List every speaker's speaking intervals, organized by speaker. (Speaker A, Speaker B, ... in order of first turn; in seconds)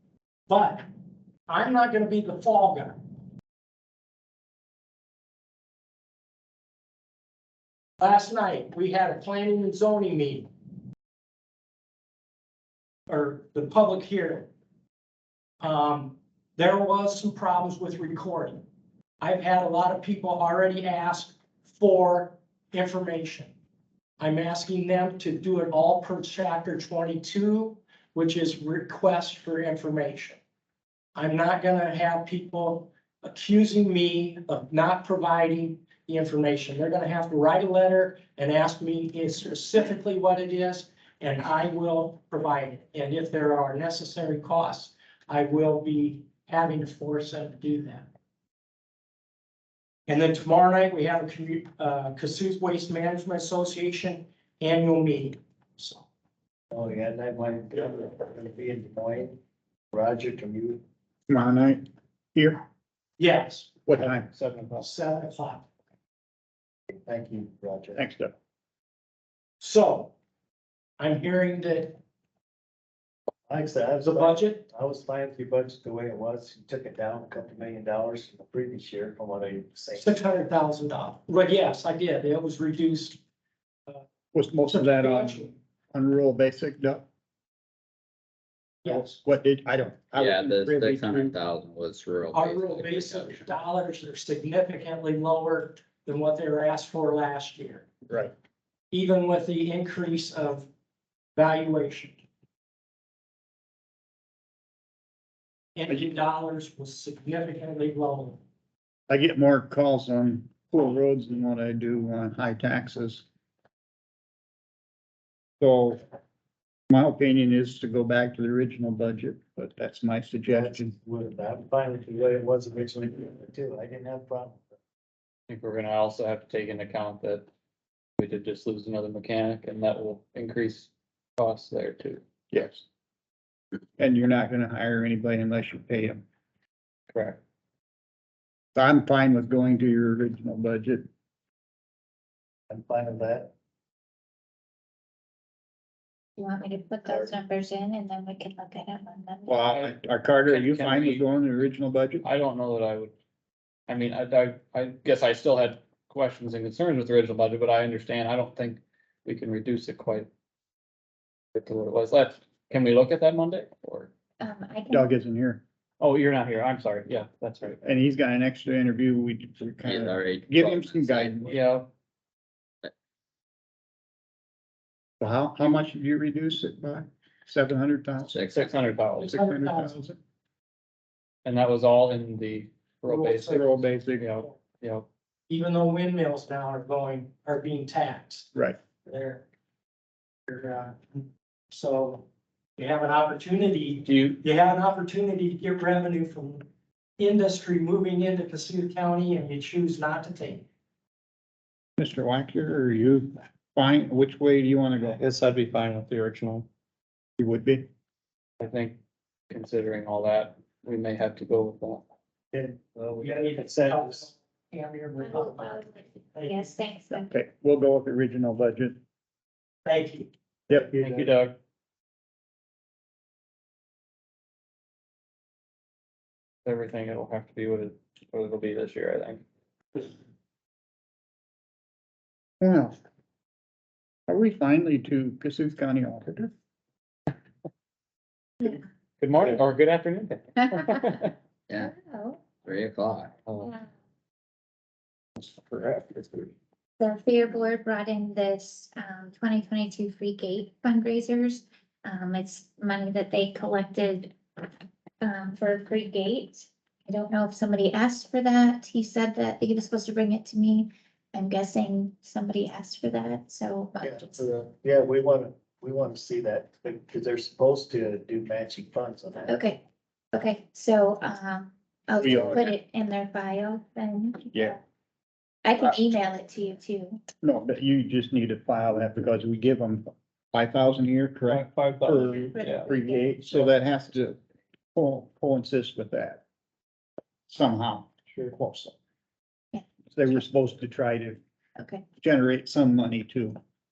Speaker A: 0.5-0.8, 1.5-3.0, 8.0-10.5, 13.1-14.5, 15.6-18.6, 19.2-23.5, 24.2-30.4, 31.1-48.1, 50.1-56.0, 63.2-63.7, 64.8-65.7, 69.6-70.1, 71.0-72.0, 74.0-74.7, 79.9-83.2, 84.7-85.5, 88.8-89.2, 92.3-97.9, 98.9-100.7, 101.3-102.2, 105.8-108.4, 179.2-179.9, 183.1-183.8, 185.5-188.5, 189.1-189.4, 190.5-192.2, 192.8-196.7, 197.2-200.7, 213.2-216.6, 219.8-220.3
Speaker B: 56.7-59.4, 59.9-60.8, 66.9-68.0, 73.5-80.1, 120.5-124.6, 142.7-143.5, 147.1-147.3, 212.5-214.3, 220.7-221.3, 264.0-269.6
Speaker C: 61.3-61.8, 62.3-62.6, 63.9-64.3, 67.9-68.3, 84.3-87.0, 88.8-91.3, 109.1-113.2, 115.6-116.0, 116.9-120.9, 132.5-132.8, 134.0-136.2, 138.7-141.0, 149.5-152.2, 164.9-165.6, 167.8-171.5, 175.2-178.4, 179.2-180.2, 183.5-184.4, 202.0-205.2, 207.4-207.9, 217.3-219.0, 232.6-233.0, 234.3-236.5, 272.2-272.7, 277.4-284.4, 284.9-286.4, 287.5-288.9, 290.1-291.4, 292.2-293.6
Speaker D: 64.3-64.8, 125.5-127.5, 128.2-132.2, 137.1-137.4, 149.7-151.2, 152.2-153.1, 153.9-160.3, 161.5-164.1, 166.0-167.8, 171.4-171.9, 178.5-179.4, 181.4-185.1, 194.1-194.4, 205.2-206.7, 208.6-209.0, 209.5-212.0, 221.0-221.6, 226.6-229.4, 239.2-241.3, 243.4-243.7, 245.5-246.5, 281.5-282.9
Speaker E: 90.1-93.5, 169.8-171.5, 178.2-178.7, 242.6-243.4
Speaker F: 146.4-149.6, 164.4-165.1, 215.2-217.3, 241.8-242.5, 243.6-243.9, 247.0-254.3, 255.2-264.4, 269.5-269.8, 270.3-274.8, 275.6-277.2, 282.5-283.6, 289.7-290.4, 291.8-292.1